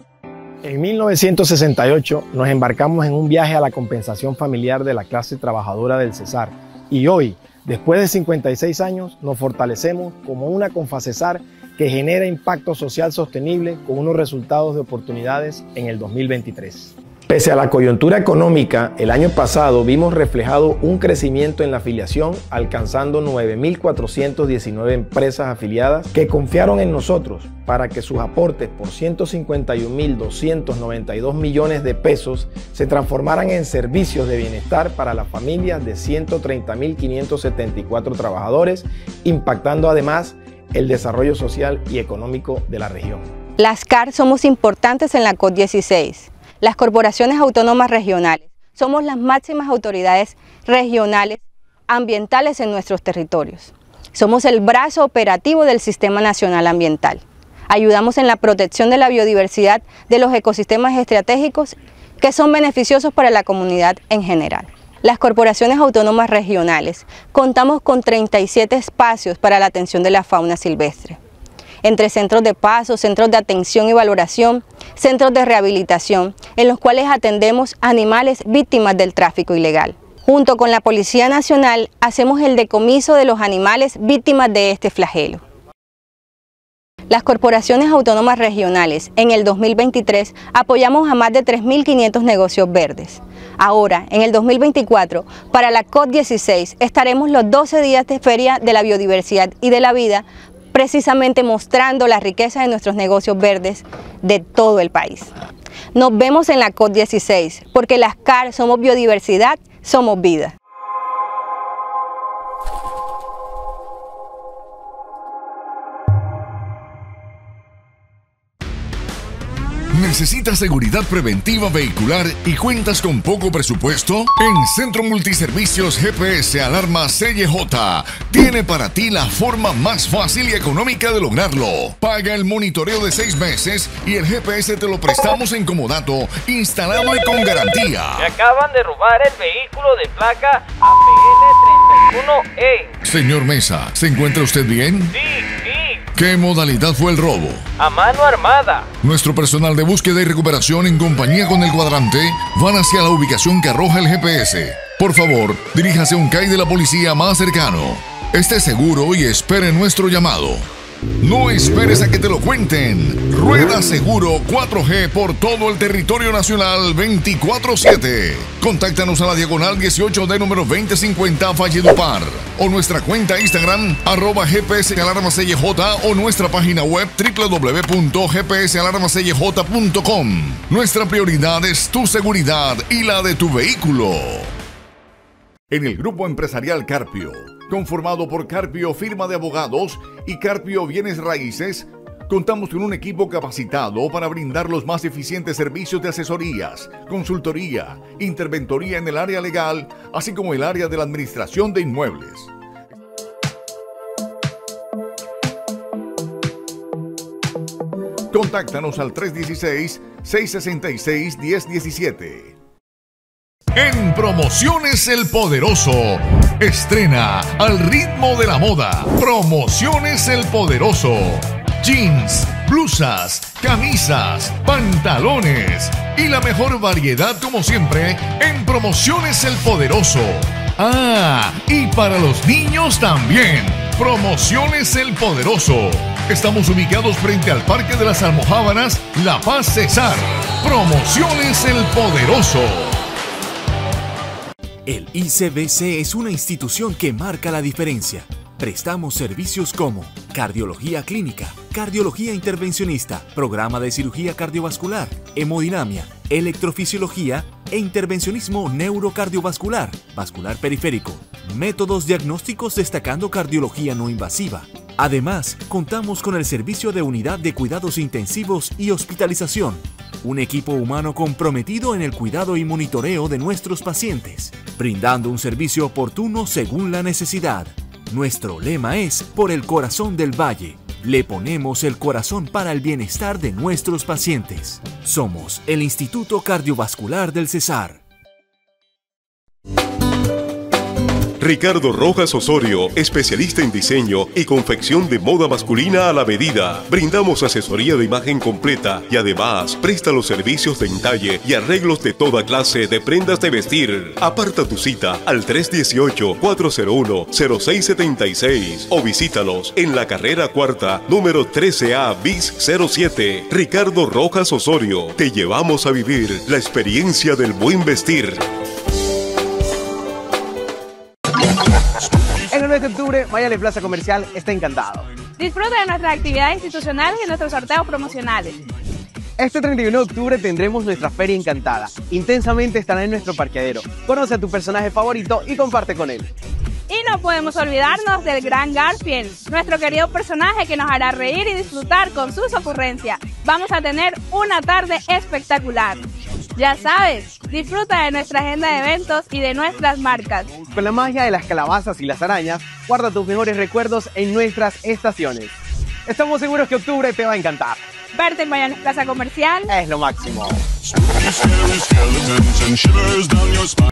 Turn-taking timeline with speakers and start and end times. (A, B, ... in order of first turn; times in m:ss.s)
0:00.6-0:43.3 A
0:43.6-1:11.2 B
1:11.8-1:25.4 B
1:27.1-1:45.3 B
1:46.0-1:50.5 B
1:59.9-2:18.3 C
2:18.2-2:22.9 D
2:23.0-2:25.2 C
2:25.2-2:26.0 D
2:26.1-2:27.7 C
2:27.8-2:28.9 D
2:29.0-2:40.7 C
2:41.2-3:04.5 C
3:05.7-3:22.5 C
3:28.3-3:32.6 C
3:33.8-4:03.0 C
4:04.9-4:48.0 E
4:51.4-5:18.4 F
5:22.5-5:25.1 G
5:25.4-5:28.6 H
5:29.4-5:36.3 G
5:36.9-5:46.0 H
5:46.6-5:50.6 H
5:50.7-5:55.5 G
5:56.1-5:57.8 G
5:58.1-5:59.7 H
5:59.7-6:00.6 G